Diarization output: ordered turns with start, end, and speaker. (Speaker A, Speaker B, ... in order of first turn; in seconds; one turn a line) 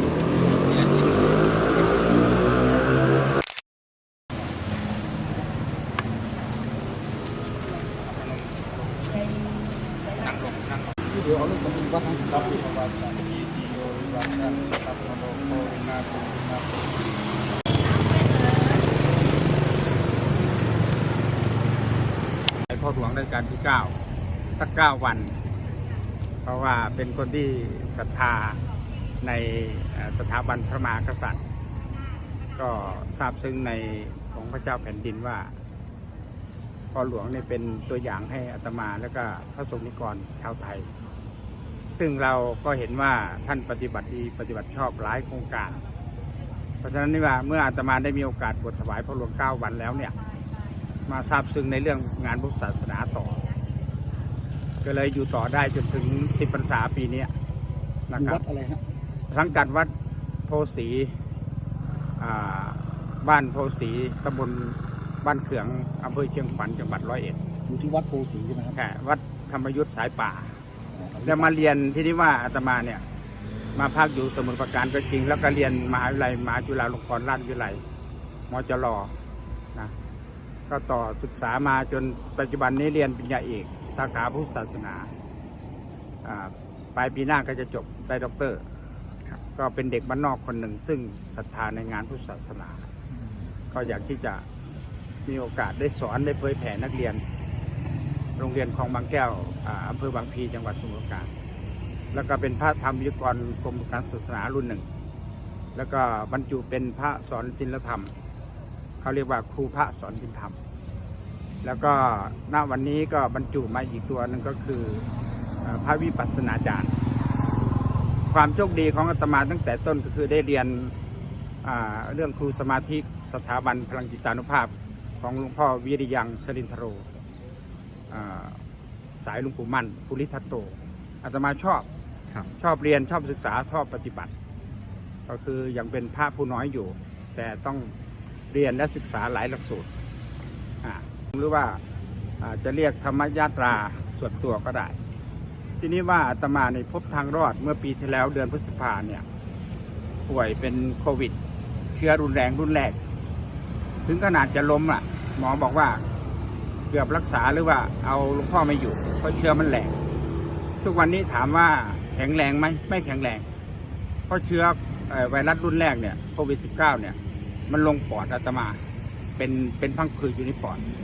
Speaker A: 0.7-1.1
Speaker A: 7.9-8.8
Speaker A: 10.1-10.9
Speaker B: 11.1-12.4
Speaker A: 12.3-16.8
Speaker A: 22.7-23.9
Speaker A: 24.6-25.4
Speaker A: 26.4-28.6
Speaker A: 29.2-31.4
Speaker A: 32.6-35.5
Speaker A: 36.9-40.9
Speaker A: 42.0-45.8
Speaker A: 46.8-50.1
Speaker A: 51.1-53.5
Speaker A: 54.8-57.3
Speaker A: 58.1-58.4
Speaker B: 58.2-58.8
Speaker A: 59.3-59.9
Speaker A: 60.5-61.1
Speaker A: 62.2-67.4
Speaker B: 67.7-68.8
Speaker A: 68.7-70.5
Speaker B: 70.9-71.7
Speaker A: 71.2-73.0
Speaker A: 73.8-77.8
Speaker A: 78.5-79.1
Speaker A: 80.7-85.1
Speaker A: 86.2-88.6
Speaker A: 89.5-92.9
Speaker A: 93.7-94.5
Speaker A: 95.3-97.2
Speaker A: 98.4-101.3
Speaker A: 102.1-104.8
Speaker A: 105.8-108.1
Speaker A: 109.0-110.5
Speaker A: 111.6-115.1
Speaker A: 115.6-116.9
Speaker A: 118.3-120.9
Speaker A: 121.6-127.0
Speaker A: 128.1-128.6
Speaker A: 129.2-131.9
Speaker A: 132.6-134.3
Speaker A: 135.3-137.9
Speaker A: 138.5-139.9
Speaker A: 140.8-141.8
Speaker A: 142.4-145.0
Speaker A: 145.8-149.2
Speaker A: 150.3-151.4
Speaker A: 151.9-153.0
Speaker A: 154.1-156.0
Speaker A: 156.9-160.0
Speaker A: 160.8-163.4
Speaker A: 164.3-167.2
Speaker A: 167.7-168.8
Speaker A: 169.4-170.8